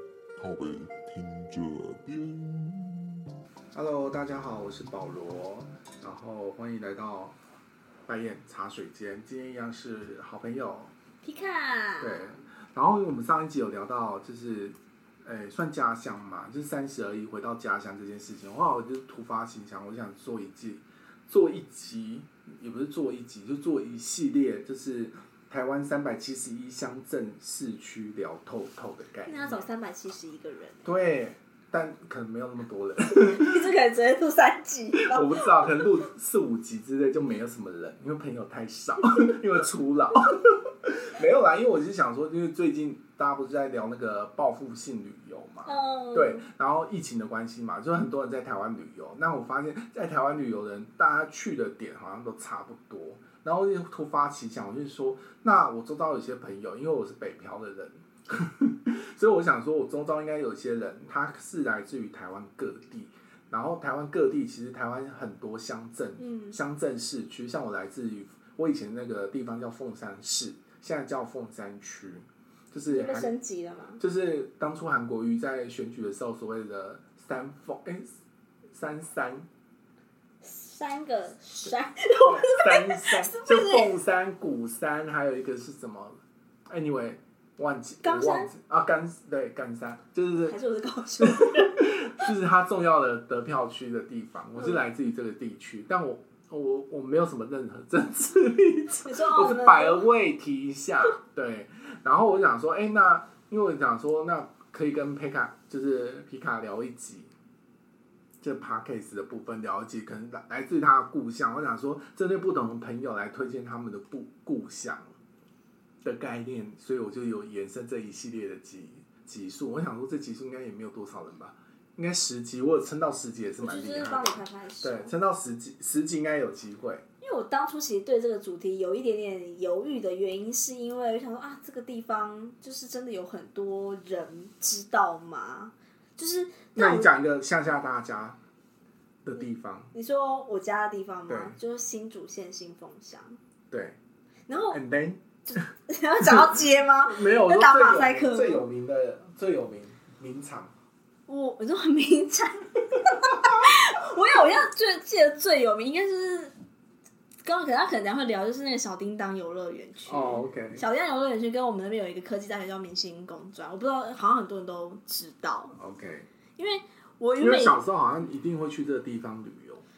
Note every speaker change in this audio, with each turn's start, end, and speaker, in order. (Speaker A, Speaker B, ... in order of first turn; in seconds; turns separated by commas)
Speaker A: 0.4-3.3, Speaker B: 3.7-7.3, Speaker B: 8.1-10.9, Speaker C: 11.2-12.3, Speaker B: 12.0-29.7, Speaker C: 29.2-30.9, Speaker B: 30.8-33.6, Speaker C: 33.1-35.8, Speaker B: 35.0-73.3, Speaker C: 45.6-46.4, Speaker C: 66.2-66.6, Speaker C: 72.9-74.0, Speaker B: 74.0-78.1, Speaker B: 78.7-79.5, Speaker C: 80.4-83.9, Speaker B: 82.2-90.6, Speaker C: 88.0-88.5, Speaker C: 90.4-92.2, Speaker B: 91.2-107.3, Speaker C: 94.5-94.8, Speaker C: 99.0-100.0, Speaker B: 108.4-115.1, Speaker B: 116.0-127.0, Speaker C: 123.6-125.1, Speaker C: 127.2-137.1, Speaker B: 136.7-138.4, Speaker B: 139.2-139.9, Speaker C: 139.9-143.4, Speaker B: 141.3-141.6, Speaker B: 143.7-144.0, Speaker C: 144.5-144.8, Speaker B: 144.7-145.2, Speaker C: 145.4-148.7, Speaker B: 146.2-150.7, Speaker C: 151.3-156.5, Speaker B: 153.2-153.6, Speaker C: 157.4-165.7, Speaker B: 160.1-160.8, Speaker B: 165.8-166.3, Speaker C: 166.6-167.8, Speaker B: 167.4-169.8